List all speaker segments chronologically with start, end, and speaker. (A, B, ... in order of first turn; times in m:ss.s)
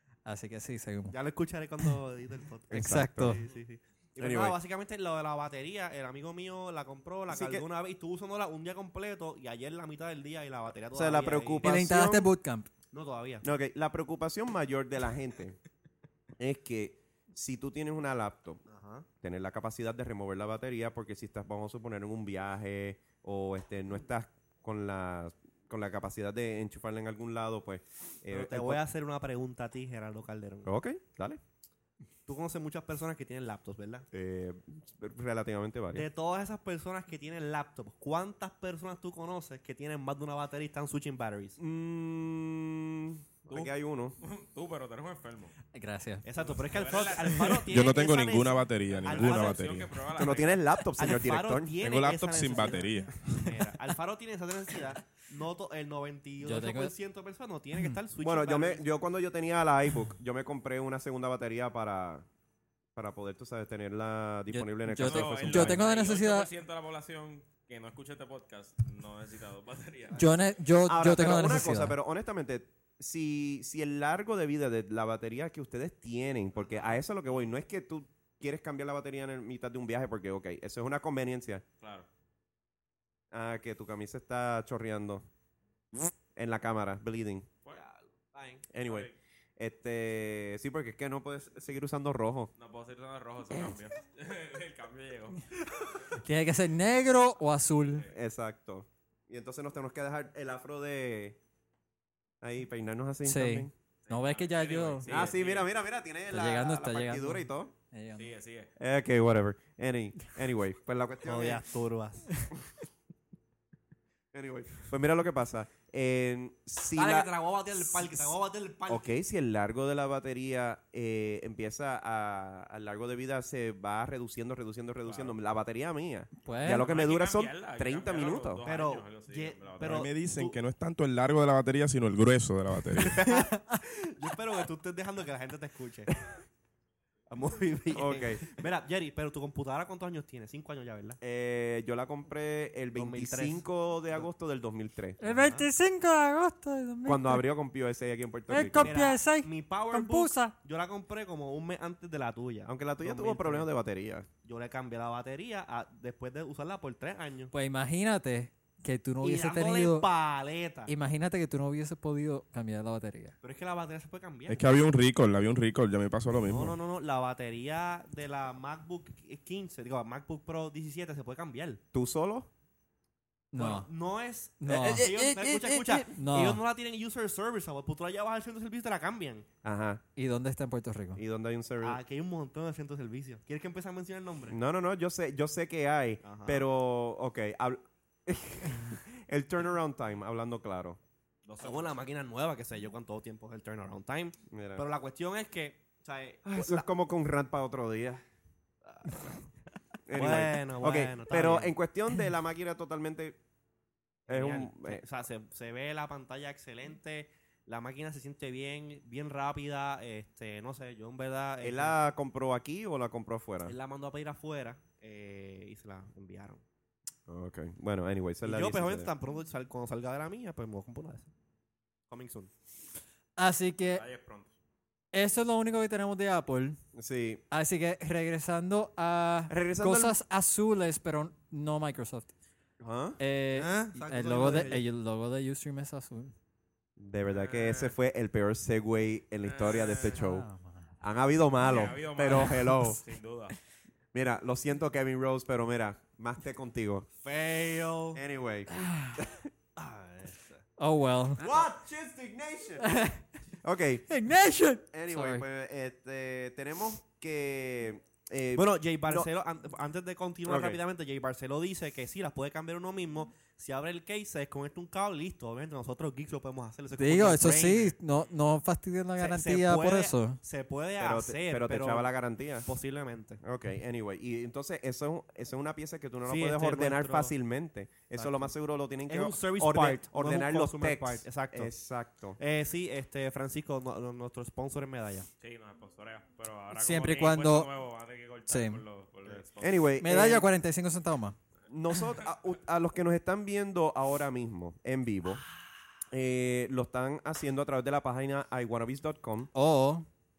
0:00.2-0:01.1 A
0:01.1-0:11.6 B
0:02.7-0:03.4 C
0:02.7-0:03.4 A
0:04.2-0:04.6 C
0:07.3-0:07.6 C
0:10.9-0:12.3 C
0:11.6-0:12.7 A
0:12.9-0:13.4 B
0:13.4-0:15.6 C
0:16.4-0:18.6 C
0:18.6-0:19.1 B
0:19.2-0:28.8 C
0:28.3-0:30.7 B
0:30.6-0:31.4 C
0:32.3-0:34.1 B
0:34.1-0:36.0 C
0:35.9-0:41.6 B
0:41.6-0:44.2 C
0:43.5-0:45.5 D
0:45.7-0:46.2 A
0:46.2-0:49.8 B
0:46.4-0:47.7 D
0:47.7-0:50.0 E
0:48.8-0:50.6 D
0:50.1-0:51.8 C
0:51.0-0:58.8 B
0:51.8-0:53.5 E
0:56.4-0:56.9 A
0:58.2-1:02.2 C
1:03.0-1:05.8 C
1:04.5-1:06.5 A
1:04.9-1:10.3 D
1:10.2-1:11.9 A
1:10.8-1:21.6 C
1:21.8-1:22.1 D
1:23.3-1:25.2 C
1:26.4-1:27.5 C
1:27.7-1:28.6 B
1:28.7-1:32.5 C
1:28.8-1:29.1 D
1:32.6-1:36.2 D
1:36.2-1:38.0 A
1:38.1-1:41.4 C
1:42.4-1:43.7 C
1:43.2-1:45.2 A
1:44.0-1:45.7 D
1:45.1-1:47.7 C
1:46.3-1:48.3 A
1:48.2-1:48.7 D
1:48.8-1:51.6 C
1:51.2-1:52.3 B
1:54.3-1:58.3 C
1:56.9-1:59.1 B
1:58.9-2:08.6 C
2:05.0-2:05.3 D
2:06.4-2:06.9 A
2:06.7-2:10.0 D
2:08.6-2:10.6 B
2:09.8-2:13.3 E
2:13.0-2:16.1 B
2:17.3-2:21.2 B
2:17.9-2:18.4 C
2:21.2-2:25.2 C
2:23.0-2:24.2 B
2:25.2-2:27.4 A
2:25.2-2:25.7 B
2:27.0-2:29.0 C
2:28.5-2:30.6 A
2:28.8-2:33.7 B
2:32.6-2:34.3 C
2:34.4-2:37.5 B
2:37.5-2:40.1 A
2:39.2-2:40.9 B
2:40.9-2:43.3 A
2:43.4-2:44.6 B
2:44.5-2:46.8 E
2:46.5-2:51.8 B
2:51.9-2:52.5 C
2:53.5-2:53.9 A
2:53.5-2:59.4 B
2:54.6-2:56.6 A
2:59.6-3:00.0 C
3:00.2-3:01.2 A
3:01.2-3:02.0 C
3:01.8-3:04.6 B
3:04.5-3:11.0 C
3:06.2-3:06.6 B
3:11.4-3:11.9 D
3:11.6-3:16.8 B
3:14.5-3:14.8 C
3:16.4-3:18.2 C
3:18.8-3:19.4 B
3:20.1-3:23.4 C
3:20.1-3:21.7 B
3:24.3-3:32.0 B
3:24.3-3:25.0 C
3:31.6-3:33.7 C
3:33.6-3:36.6 B
3:37.3-3:39.1 C
3:38.4-3:41.3 B
3:42.1-3:42.5 B
3:43.4-3:44.0 A
3:43.9-3:44.5 D
3:45.1-3:46.8 A
3:46.9-3:47.4 C
3:47.5-3:52.3 A
3:49.5-3:50.2 C
3:52.8-3:53.2 C
3:53.2-3:56.3 A
3:53.5-3:54.8 B
3:57.0-4:00.5 C
3:57.3-3:57.9 D
3:59.4-4:00.2 D
4:00.0-4:00.9 A
4:01.0-4:03.0 C
4:01.6-4:03.6 D
4:02.3-4:02.8 A
4:04.1-4:07.1 C
4:07.2-4:08.2 B
4:08.1-4:09.5 C
4:08.7-4:09.3 A
4:09.8-4:10.6 B
4:10.8-4:11.4 A
4:11.4-4:13.0 C
4:12.8-4:13.2 A
4:13.6-4:14.1 C
4:14.1-4:15.4 A
4:14.9-4:19.3 C
4:18.5-4:28.0 B
4:20.4-4:20.8 C
4:27.0-4:30.4 A
4:29.2-4:32.1 B
4:31.0-4:32.7 C
4:32.6-4:33.4 B
4:33.4-4:42.4 C
4:36.2-4:37.3 B
4:38.2-4:38.5 B
4:39.0-4:41.7 B
4:42.4-4:45.3 B
4:45.4-4:49.8 D
4:46.7-4:47.7 A
4:48.5-4:48.8 A
4:49.6-4:50.5 C
4:50.0-4:51.4 A
4:51.7-4:55.4 C
4:56.1-4:59.5 C
4:59.5-5:00.0 A